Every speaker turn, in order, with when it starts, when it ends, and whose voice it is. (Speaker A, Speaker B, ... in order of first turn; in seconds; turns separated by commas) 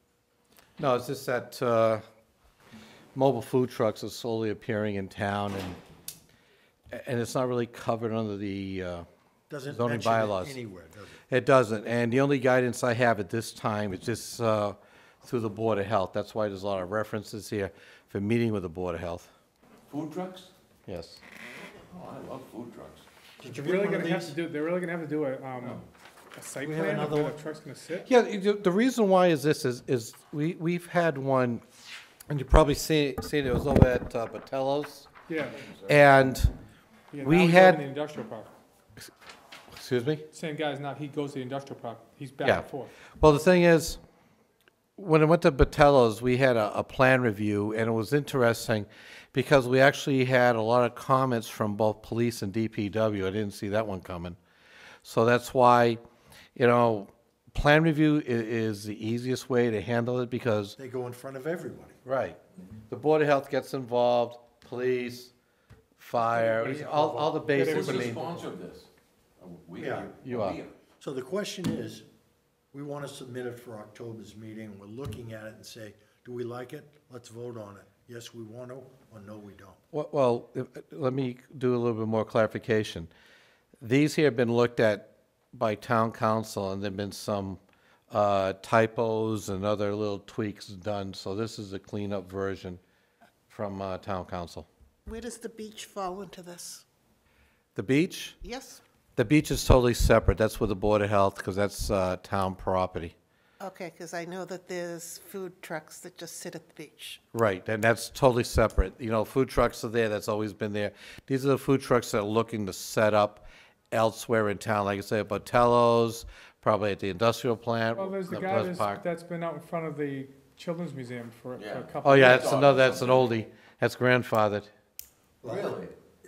Speaker A: 0.8-2.0, Speaker A: 3.1-5.8, Speaker A: 6.9-9.1, Speaker B: 9.5-11.2, Speaker A: 9.7-10.6, Speaker A: 11.3-19.3, Speaker C: 19.9-20.5, Speaker A: 20.9-21.2, Speaker C: 21.9-23.1, Speaker B: 23.4-24.4, Speaker D: 23.4-25.8, Speaker D: 26.4-28.1, Speaker B: 26.6-27.4, Speaker A: 28.0-31.6, Speaker A: 32.3-35.1, Speaker D: 35.3-35.6, Speaker C: 35.6-36.0, Speaker A: 35.9-36.5, Speaker D: 37.1-38.5, Speaker A: 37.2-37.8, Speaker A: 39.7-40.2, Speaker D: 40.3-42.9, Speaker A: 43.2-44.0, Speaker A: 45.0-54.4, Speaker A: 55.0-56.0, Speaker A: 56.6-60.8, Speaker B: 60.8-62.0, Speaker A: 62.0-62.4, Speaker A: 62.9-65.3, Speaker A: 66.0-68.3, Speaker B: 66.3-67.6, Speaker C: 67.5-70.7, Speaker D: 67.6-68.3, Speaker B: 69.8-70.1, Speaker A: 70.2-70.6, Speaker B: 71.0-72.0, Speaker B: 72.7-79.8, Speaker A: 79.9-83.1, Speaker A: 83.8-92.8, Speaker A: 93.5-94.7, Speaker E: 95.1-96.8, Speaker A: 97.8-98.4, Speaker E: 98.4-98.8, Speaker A: 99.2-103.2, Speaker E: 103.6-107.2, Speaker A: 107.3-119.0, Speaker D: 118.0-122.5, Speaker C: 121.6-123.3, Speaker A: 122.0-124.7, Speaker C: 125.4-125.9, Speaker B: 125.4-125.8